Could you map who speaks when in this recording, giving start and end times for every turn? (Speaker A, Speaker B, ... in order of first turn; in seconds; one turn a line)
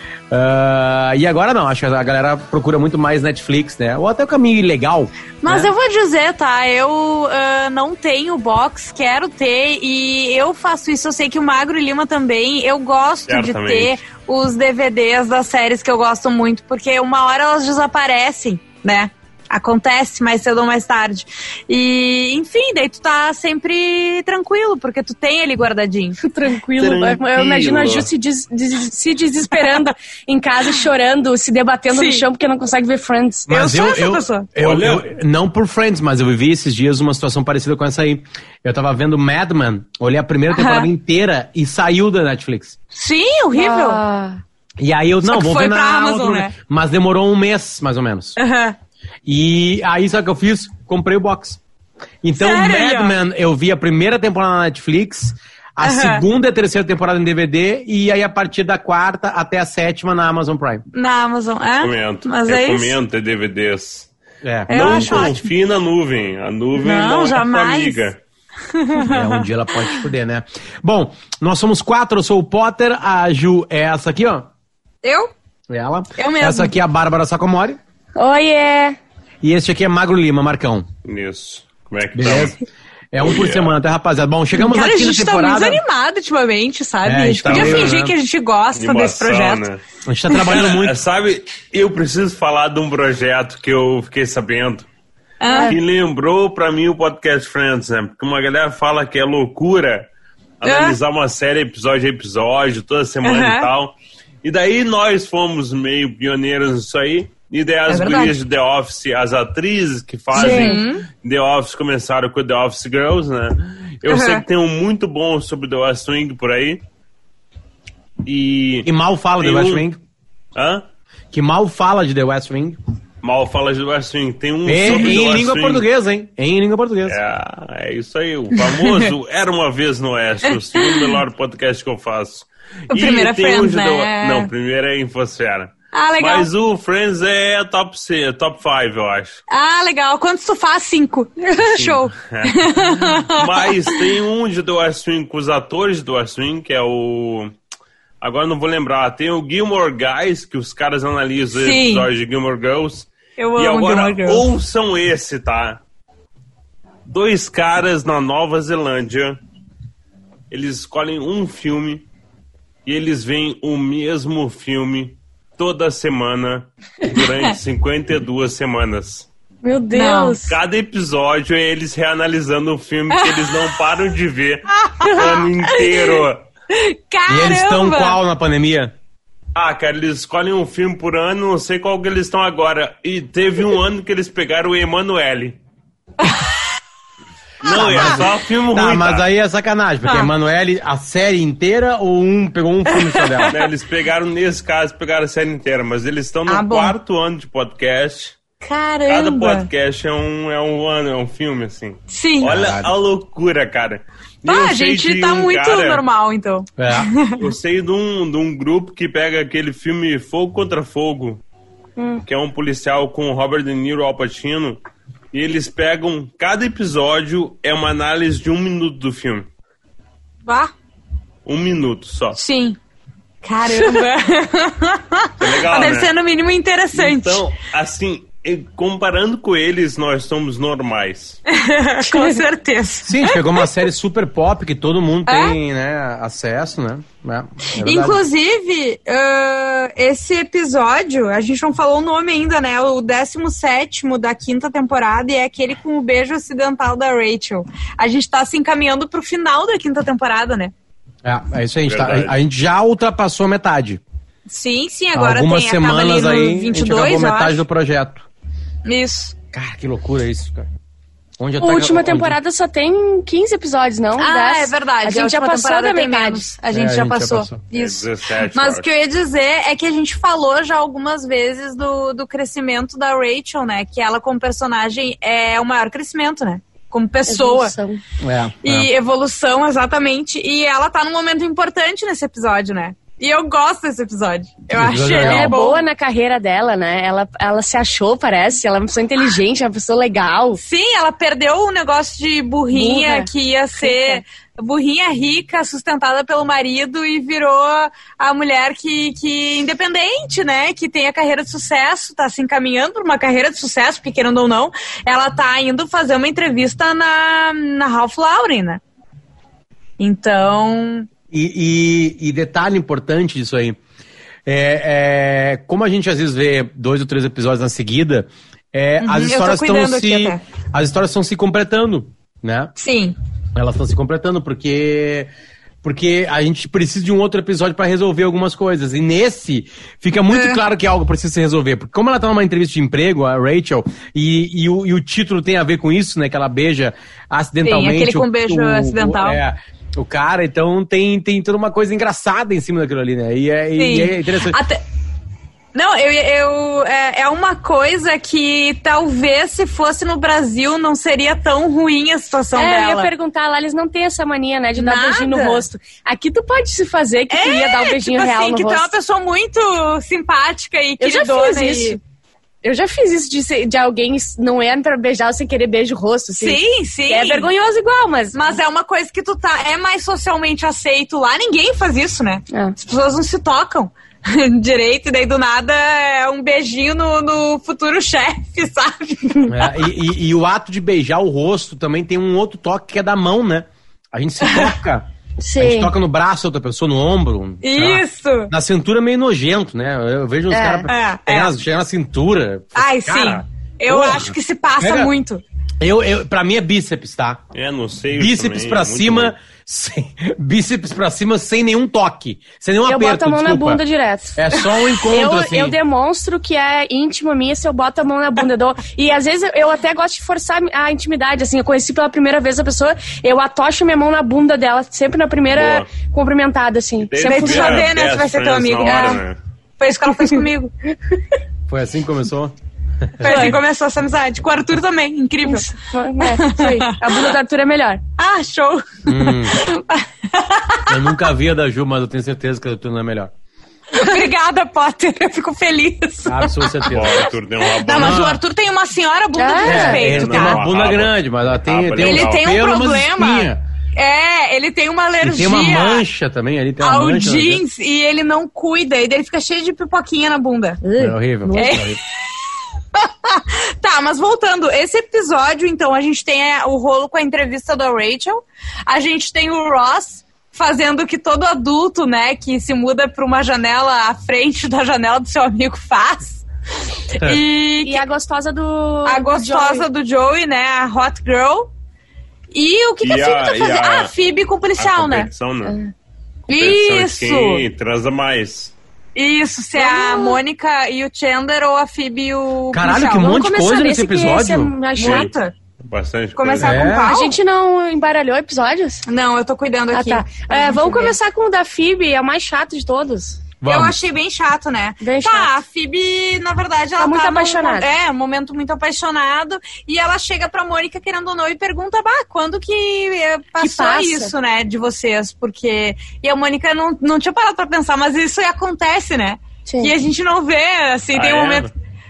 Speaker A: 0.3-5.7
Speaker B: 5.4-26.2
Speaker C: 13.3-14.0
Speaker D: 26.2-33.5
Speaker C: 26.8-28.1
Speaker B: 31.9-32.2
Speaker A: 33.5-42.8
Speaker B: 33.5-34.5
Speaker C: 34.6-35.0
Speaker B: 40.5-40.9
Speaker B: 42.9-44.0
Speaker D: 43.5-44.4
Speaker A: 44.8-48.4
Speaker B: 45.2-46.5
Speaker B: 48.4-48.8
Speaker A: 49.2-51.6
Speaker A: 52.2-60.8
Speaker B: 52.4-53.1
Speaker B: 55.8-56.2
Speaker B: 60.9-63.0
Speaker C: 61.8-64.1
Speaker A: 64.4-65.3
Speaker B: 64.7-65.5
Speaker C: 64.7-68.2
Speaker B: 66.8-68.1
Speaker B: 68.7-69.9
Speaker A: 69.0-74.5
Speaker B: 75.0-75.3
Speaker A: 75.7-77.8
Speaker B: 76.2-76.7
Speaker D: 78.2-79.0
Speaker A: 79.4-80.9
Speaker C: 81.0-82.6
Speaker A: 82.1-82.6
Speaker A: 83.1-85.8
Speaker C: 83.2-83.7
Speaker B: 84.5-89.7
Speaker A: 87.0-88.1
Speaker C: 87.5-88.0
Speaker C: 88.8-89.8
Speaker A: 90.0-91.0
Speaker C: 90.4-94.9
Speaker B: 95.4-95.8
Speaker D: 95.5-95.8
Speaker C: 95.7-100.1
Speaker C: 100.6-116.8
Speaker B: 100.6-101.0
Speaker B: 103.2-103.7
Speaker B: 107.9-108.3
Speaker D: 110.3-111.0
Speaker B: 110.3-111.0
Speaker B: 114.0-114.4
Speaker C: 118.2-118.9
Speaker A: 118.8-120.0
Speaker C: 119.4-119.9
Speaker C: 120.5-120.8
Speaker A: 121.3-122.8
Speaker C: 123.2-125.9
Speaker A: 124.6-127.2
Speaker C: 127.0-139.4
Speaker B: 128.6-129.1
Speaker B: 130.7-131.2
Speaker B: 132.9-134.5
Speaker B: 135.9-136.5
Speaker B: 139.5-144.0
Speaker C: 141.6-147.5
Speaker C: 148.2-155.8
Speaker B: 151.6-152.1
Speaker B: 153.4-154.5
Speaker C: 157.1-159.4
Speaker C: 160.5-162.0
Speaker C: 162.8-169.3
Speaker D: 169.6-170.6
Speaker B: 169.9-170.4
Speaker C: 170.4-176.4
Speaker B: 173.1-173.6
Speaker B: 174.7-178.2
Speaker A: 177.3-178.9
Speaker C: 179.5-185.6
Speaker B: 186.2-186.5
Speaker C: 187.6-189.2
Speaker A: 187.6-193.5
Speaker B: 193.0-193.6
Speaker C: 193.5-198.4
Speaker B: 196.5-196.9
Speaker B: 198.6-199.7
Speaker C: 199.1-206.0
Speaker B: 202.1-202.5
Speaker A: 202.4-202.9
Speaker B: 204.4-207.4
Speaker A: 206.8-207.1
Speaker C: 207.3-211.4
Speaker D: 212.0-212.2
Speaker C: 212.2-214.8
Speaker C: 215.3-219.5
Speaker B: 220.4-220.7
Speaker C: 221.4-222.4
Speaker B: 222.4-222.8
Speaker B: 223.4-227.4
Speaker C: 225.4-226.1
Speaker C: 226.9-231.4
Speaker B: 231.5-233.7
Speaker D: 232.1-232.4
Speaker A: 233.1-238.2
Speaker B: 235.2-235.6
Speaker B: 237.8-250.7
Speaker A: 251.2-254.0
Speaker C: 251.8-252.4
Speaker B: 254.5-257.6
Speaker A: 255.1-258.3
Speaker B: 258.9-259.3
Speaker A: 259.5-260.7
Speaker A: 261.4-262.4
Speaker D: 261.6-266.5
Speaker B: 264.2-277.7
Speaker A: 266.7-267.6
Speaker C: 267.7-268.9
Speaker D: 277.3-278.0
Speaker A: 278.2-278.9
Speaker B: 278.6-285.8
Speaker A: 284.7-285.5
Speaker D: 285.2-290.6
Speaker B: 290.6-308.8
Speaker D: 292.7-294.2
Speaker B: 310.0-311.1
Speaker A: 311.3-313.8
Speaker A: 314.4-322.7
Speaker B: 319.0-320.4
Speaker B: 322.8-323.1
Speaker A: 323.5-325.3
Speaker A: 325.8-344.6
Speaker B: 330.3-330.6
Speaker B: 337.6-339.4
Speaker B: 343.8-344.8
Speaker B: 345.7-353.1
Speaker D: 352.5-358.9
Speaker B: 354.7-355.6
Speaker B: 357.3-362.0
Speaker D: 361.0-362.0
Speaker D: 362.6-368.4
Speaker B: 366.4-367.5
Speaker B: 368.3-379.7
Speaker A: 379.5-395.1
Speaker B: 384.4-384.7
Speaker D: 385.4-385.9
Speaker B: 387.6-388.5
Speaker D: 390.5-390.9
Speaker B: 390.9-391.5
Speaker B: 392.7-395.4
Speaker A: 395.8-397.4
Speaker C: 397.5-399.3
Speaker A: 398.1-403.8
Speaker D: 402.8-417.9
Speaker A: 404.4-405.8
Speaker C: 415.5-415.9
Speaker C: 417.1-419.4
Speaker B: 417.2-419.2
Speaker D: 418.9-419.2
Speaker B: 419.8-420.7
Speaker D: 420.1-420.4
Speaker A: 421.7-423.6
Speaker B: 423.2-425.7
Speaker D: 423.2-423.6
Speaker D: 425.4-428.0
Speaker B: 426.2-427.3
Speaker B: 428.2-431.0
Speaker A: 429.1-429.6
Speaker A: 430.9-433.3
Speaker B: 433.9-437.0
Speaker A: 436.2-437.3
Speaker C: 436.9-438.4
Speaker B: 437.6-440.6
Speaker A: 437.9-438.4
Speaker D: 439.4-440.0
Speaker A: 439.6-443.6
Speaker C: 439.8-442.4
Speaker B: 442.0-446.0
Speaker A: 445.2-447.6
Speaker B: 446.8-450.8
Speaker D: 450.8-451.8
Speaker A: 451.0-452.0
Speaker B: 451.5-452.0
Speaker B: 452.9-466.4
Speaker B: 467.1-468.0
Speaker D: 467.8-469.9
Speaker B: 469.1-471.7
Speaker B: 472.5-475.3
Speaker C: 473.0-474.1
Speaker C: 474.8-475.8
Speaker B: 476.5-477.6
Speaker C: 476.5-478.7
Speaker B: 479.1-483.3
Speaker D: 479.8-480.4
Speaker A: 482.7-484.7
Speaker D: 483.0-485.3
Speaker B: 484.9-485.5
Speaker C: 485.0-485.3
Speaker C: 485.8-486.8
Speaker B: 486.4-487.3
Speaker A: 486.6-487.1
Speaker D: 486.9-489.0
Speaker B: 489.1-491.1
Speaker D: 489.9-493.4
Speaker A: 493.6-493.9
Speaker B: 493.7-511.7
Speaker D: 495.0-495.5
Speaker D: 497.0-497.9
Speaker D: 503.6-504.3
Speaker D: 509.6-509.9
Speaker C: 511.1-511.7